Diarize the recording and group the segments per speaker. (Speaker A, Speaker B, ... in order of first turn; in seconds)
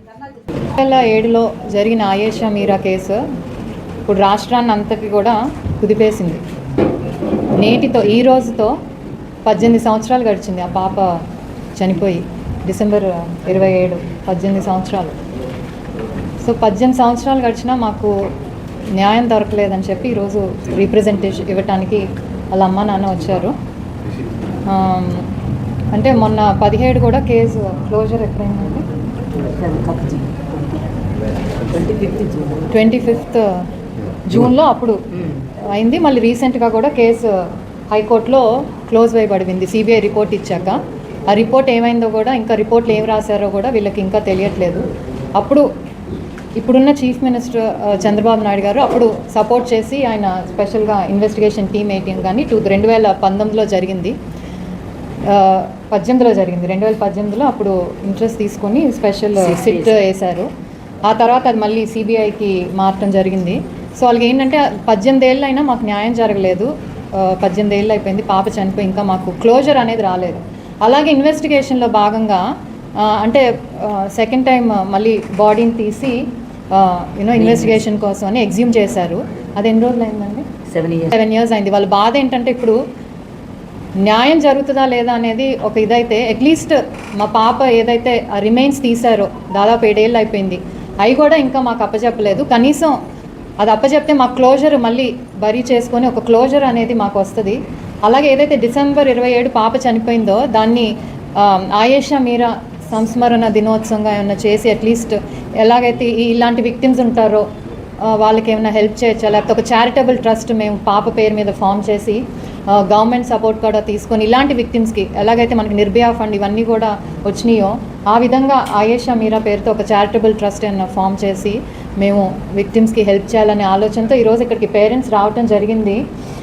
Speaker A: 0.6-3.2, 4.1-6.5, 7.6-8.8, 9.5-11.2, 11.8-15.2, 16.4-18.3, 19.0-23.6, 24.7-25.3, 25.9-28.9, 32.7-33.7, 34.3-45.7, 46.6-54.2, 55.3-60.5, 61.0-72.5, 73.0-80.5, 81.1-82.8, 84.0-93.0, 93.6-107.5, 108.0-126.0
Speaker B: 29.4-31.0, 31.6-32.7, 35.1-35.4, 59.4-60.0, 77.3-77.8, 80.7-81.2